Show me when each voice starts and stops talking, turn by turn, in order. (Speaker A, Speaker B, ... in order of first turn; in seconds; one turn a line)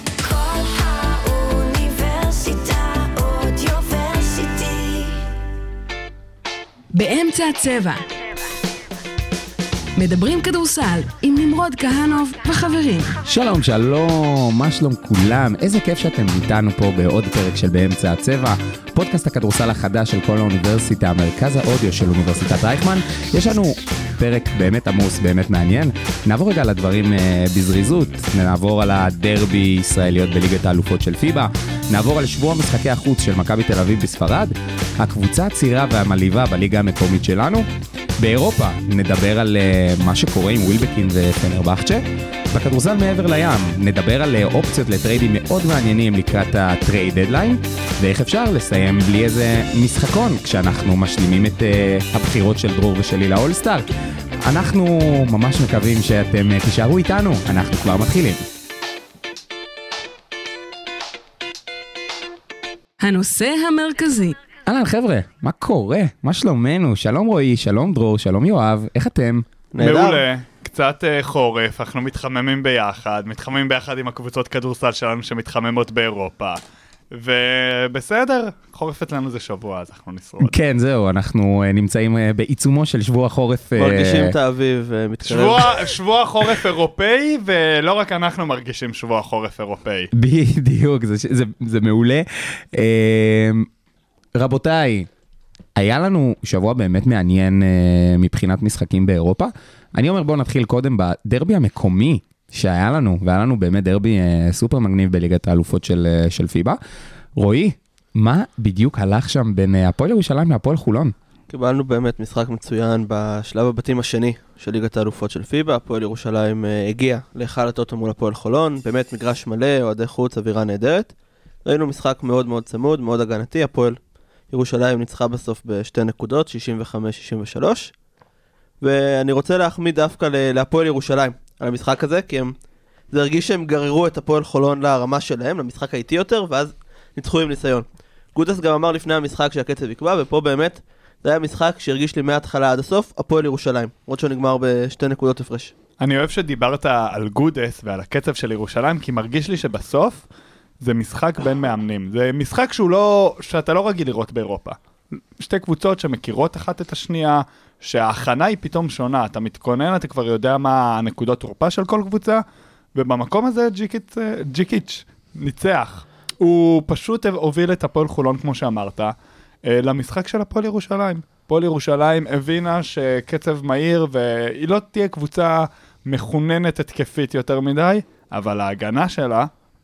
Speaker A: 0.2-5.3
Speaker B: 6.9-8.0
Speaker B: 10.0-13.2
Speaker C: 13.2-37.7
Speaker C: 38.2-53.9
Speaker C: 54.5-58.4
Speaker B: 63.0-64.4
Speaker C: 64.7-69.4
Speaker D: 69.7-70.2
Speaker E: 69.8-76.6
Speaker E: 77.1-80.5
Speaker C: 80.4-84.3
Speaker D: 83.8-85.9
Speaker E: 85.2-90.1
Speaker C: 90.1-93.7
Speaker C: 94.3-95.1
Speaker C: 95.7-106.8
Speaker C: 107.3-111.1
Speaker D: 111.5-121.1
Speaker D: 121.6-124.0
Speaker D: 124.5-127.9
Speaker D: 128.8-132.5
Speaker D: 133.1-145.7
Speaker E: 146.0-150.2
Speaker E: 150.8-154.8
Speaker E: 155.4-162.4
Speaker E: 162.9-169.1
Speaker E: 169.7-179.5